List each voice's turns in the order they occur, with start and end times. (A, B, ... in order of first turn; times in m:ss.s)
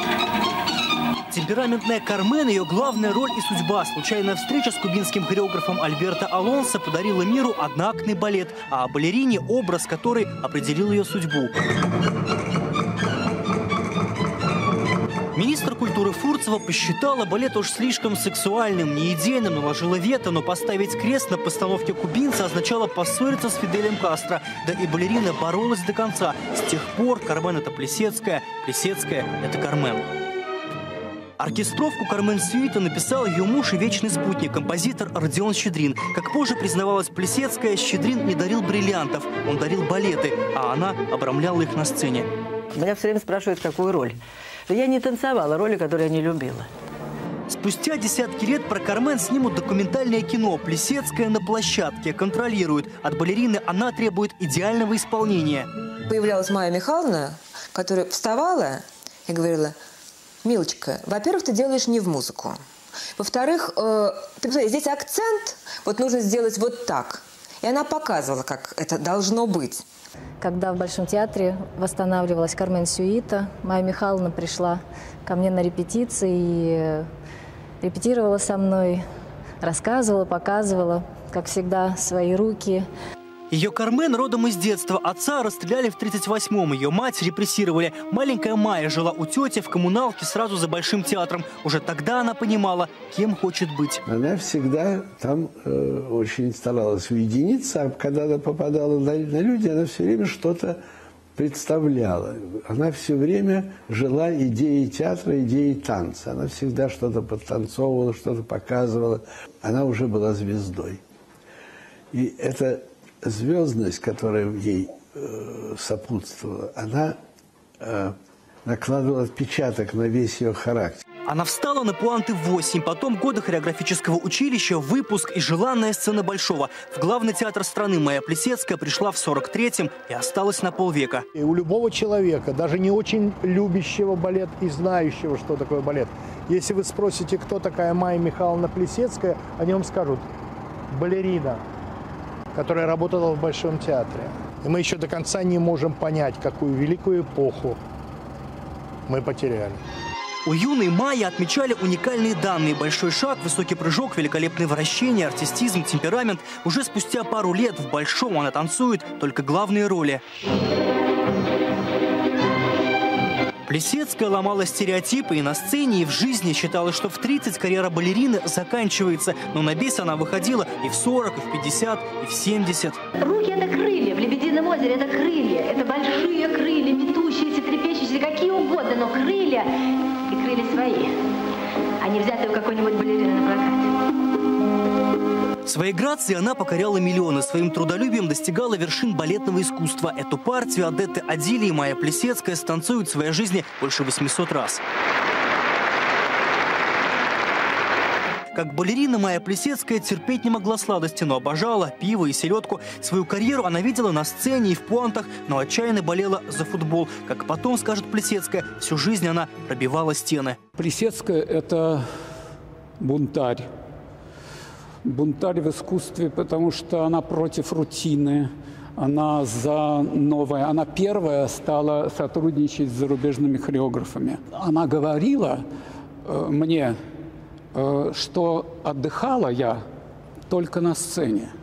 0:01.3-0:11.5 A
0:15.3-0:30.0 A
0:31.4-0:42.3 A
0:42.8-0:44.1 B
0:44.7-0:46.6 B
0:47.5-0:55.7 A
0:56.1-0:59.8 C
1:00.4-1:02.6 C
1:03.2-1:09.8 C
1:10.4-1:17.1 D
1:17.8-1:19.0 D
1:19.6-1:22.9 D
1:23.5-1:34.0 A
1:34.0-1:40.8 E
1:41.4-1:51.0 E
1:52.1-1:57.2 E
1:57.8-1:58.1 E
1:58.6-2:01.0 E
2:01.3-2:11.2 A
2:11.3-2:20.2 F
2:20.9-2:21.6 F
2:22.5-2:27.8 F
2:29.1-2:29.8 F
2:30.4-2:40.2 A
2:43.7-2:53.0 A
2:53.2-2:59.7 G
3:00.3-3:01.1 G
3:02.0-3:03.9 G
3:05.6-3:14.8 A
3:18.5-3:30.6 A
3:30.8-3:32.0 H
3:33.0-3:33.7 H
3:35.0-3:45.6 H
3:46.2-3:47.0 H
3:47.7-3:49.8 H
3:50.5-3:51.5 H